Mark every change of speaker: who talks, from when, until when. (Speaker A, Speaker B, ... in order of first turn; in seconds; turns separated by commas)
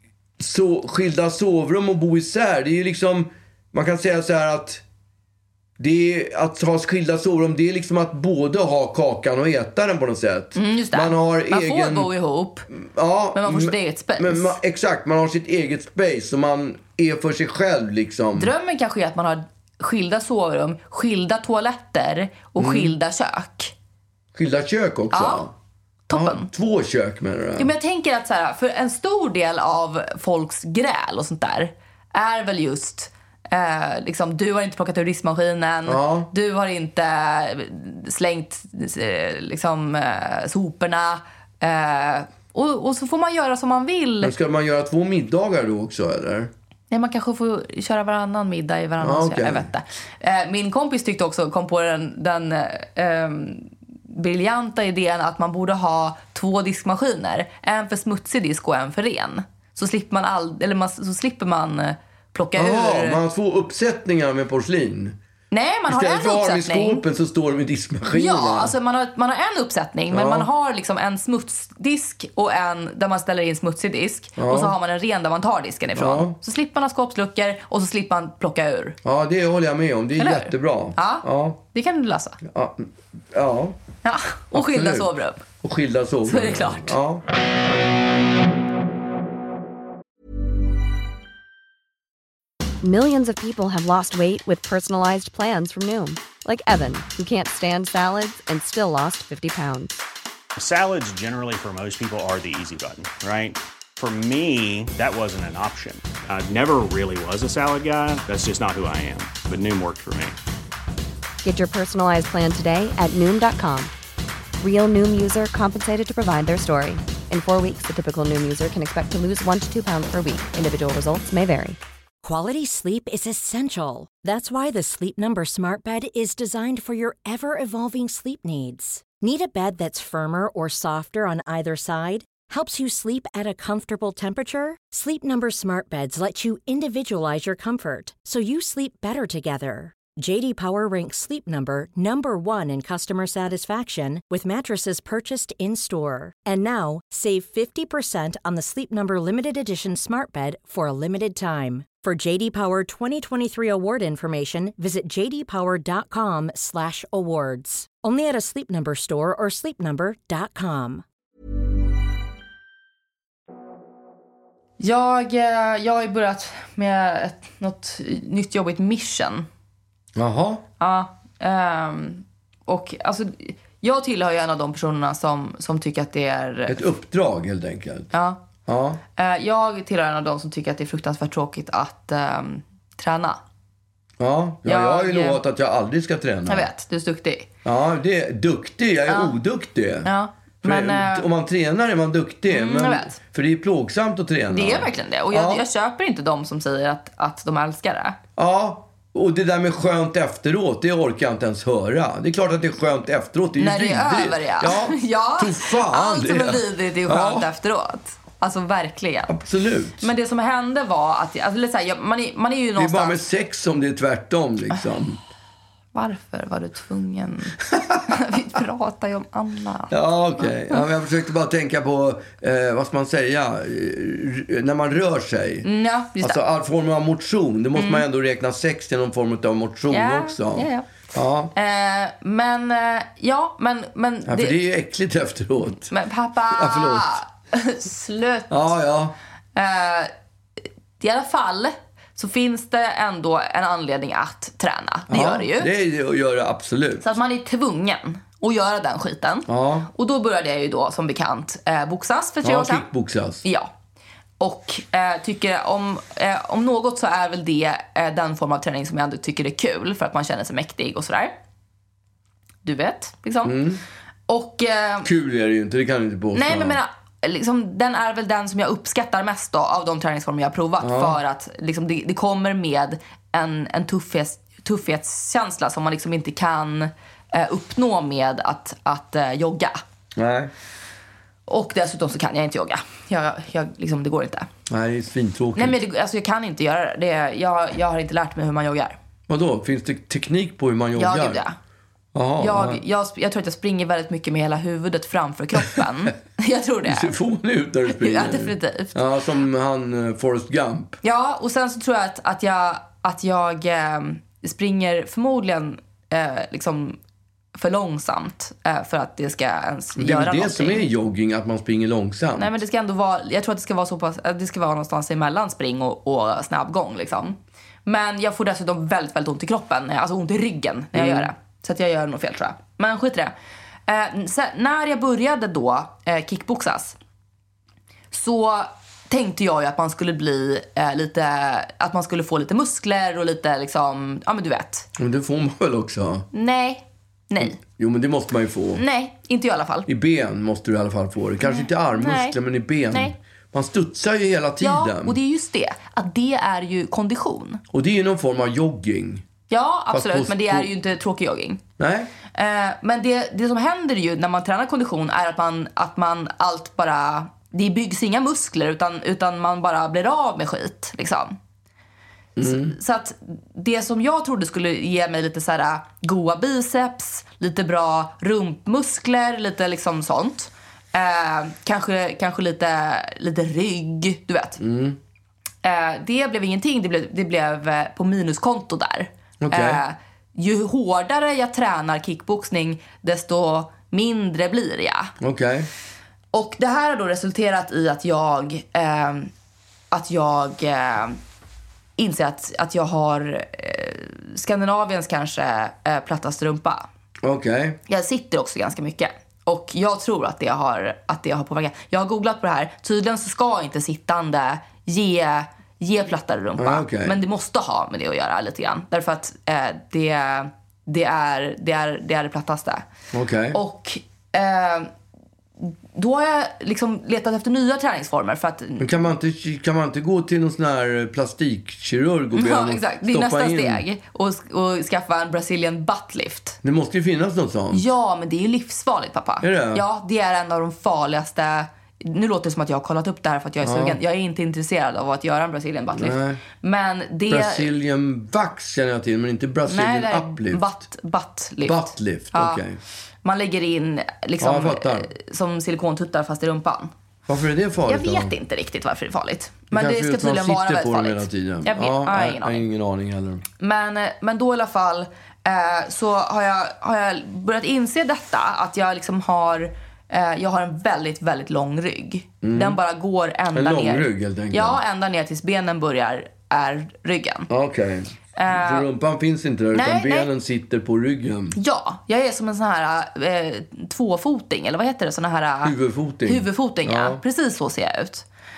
Speaker A: 0.4-4.8, Speaker A: 5.8-12.1, Speaker B: 10.6-12.7, Speaker A: 12.7-18.5, Speaker B: 13.3-14.6, Speaker B: 18.4-23.7, Speaker A: 22.6-22.9, Speaker A: 24.4-25.5, Speaker B: 25.1-25.5, Speaker B: 26.1-26.5, Speaker A: 26.1-27.7, Speaker B: 27.6-44.3, Speaker A: 35.9-36.3, Speaker A: 44.2-46.5, Speaker B: 46.9-63.2, Speaker A: 49.0-49.7, Speaker A: 62.6-65.2, Speaker B: 65.5-67.0, Speaker A: 65.9-68.7, Speaker B: 68.1-79.0, Speaker A: 70.1-70.5, Speaker A: 74.4-74.7, Speaker A: 76.0-76.4, Speaker A: 79.0-81.6, Speaker B: 80.2-82.4, Speaker A: 82.4-83.8, Speaker B: 84.0-85.4, Speaker A: 84.5-85.1, Speaker A: 85.6-87.2, Speaker B: 86.3-87.0, Speaker C: 92.8-100.0, Speaker D: 100.6-110.4, Speaker C: 111.4-113.9, Speaker C: 114.6-121.8, Speaker E: 122.2-161.0, Speaker B: 164.8-169.5, Speaker A: 170.2-170.6, Speaker B: 170.8-176.8, Speaker A: 176.7-178.1, Speaker B: 178.1-178.4, Speaker A: 178.7-179.0, Speaker B: 179.2-183.4, Speaker A: 184.2-186.7, Speaker B: 184.7-185.4, Speaker B: 186.5-187.5, Speaker A: 187.7-190.1, Speaker B: 189.1-189.3, Speaker B: 190.1-191.3, Speaker A: 190.6-195.6, Speaker B: 192.5-193.2, Speaker B: 194.5-198.2, Speaker A: 198.4-207.5, Speaker B: 203.6-209.3, Speaker A: 209.3-210.1, Speaker B: 210.0-213.2, Speaker A: 212.8-215.2, Speaker B: 215.9-220.8, Speaker A: 217.7-218.0, Speaker A: 219.9-225.7, Speaker B: 225.6-226.4, Speaker A: 226.2-231.5, Speaker B: 227.8-228.0, Speaker B: 229.9-230.9, Speaker B: 231.6-234.6, Speaker A: 234.3-235.9, Speaker B: 235.9-238.5, Speaker A: 236.5-237.2, Speaker A: 238.5-239.2, Speaker B: 239.6-240.1, Speaker B: 241.0-245.7, Speaker A: 245.1-247.1, Speaker B: 247.0-252.9, Speaker A: 249.5-249.9, Speaker A: 252.4-253.4, Speaker B: 253.4-253.7, Speaker B: 254.4-261.4, Speaker B: 262.6-263.6, Speaker A: 263.4-263.8, Speaker B: 264.3-265.1, Speaker A: 265.0-266.8, Speaker B: 266.3-279.8, Speaker A: 270.8-271.2, Speaker A: 280.2-280.5, Speaker B: 281.5-284.5, Speaker A: 284.7-285.8, Speaker B: 285.6-289.0, Speaker A: 289.3-291.4, Speaker B: 291.0-291.6, Speaker A: 292.1-292.8, Speaker B: 292.4-297.1, Speaker A: 296.9-301.0, Speaker B: 297.9-299.0, Speaker B: 301.0-307.0, Speaker B: 307.6-310.9, Speaker A: 310.0-312.6, Speaker B: 312.4-323.3, Speaker A: 320.9-321.3, Speaker B: 323.9-327.0, Speaker B: 328.1-334.9, Speaker A: 335.0-336.3, Speaker B: 336.3-337.6, Speaker A: 337.4-338.8, Speaker B: 338.8-339.9, Speaker A: 339.9-345.2, Speaker B: 341.4-342.4, Speaker B: 344.6-347.6, Speaker A: 347.7-349.2, Speaker B: 349.5-351.6, Speaker A: 349.9-350.7, Speaker A: 351.8-352.1, Speaker B: 352.3-361.4, Speaker A: 362.4-362.8, Speaker B: 362.4-374.6, Speaker A: 374.6-375.0, Speaker B: 375.6-385.1, Speaker A: 379.4-379.8, Speaker A: 385.2-385.7, Speaker B: 386.3-389.3, Speaker B: 389.9-391.2, Speaker B: 392.0-396.9, Speaker A: 397.2-397.8, Speaker B: 397.9-412.9, Speaker A: 406.6-407.2, Speaker A: 413.1-413.6, Speaker B: 413.5-414.9, Speaker B: 415.6-418.9, Speaker A: 418.8-423.8, Speaker B: 422.4-426.6, Speaker A: 426.6-427.9, Speaker B: 427.7-437.7, Speaker A: 429.4-429.8, Speaker A: 433.6-434.0, Speaker A: 436.0-436.4, Speaker A: 437.3-440.7, Speaker B: 439.7-442.6, Speaker A: 441.7-442.8, Speaker B: 443.2-446.9, Speaker A: 444.4-445.1, Speaker A: 447.3-448.3, Speaker B: 447.9-452.6, Speaker A: 449.7-453.4, Speaker B: 453.6-467.5, Speaker A: 462.4-462.8, Speaker A: 463.5-464.8, Speaker A: 467.5-471.6, Speaker B: 468.4-468.9, Speaker B: 469.7-470.3, Speaker B: 471.6-475.8, Speaker A: 475.6-477.2, Speaker B: 476.3-478.2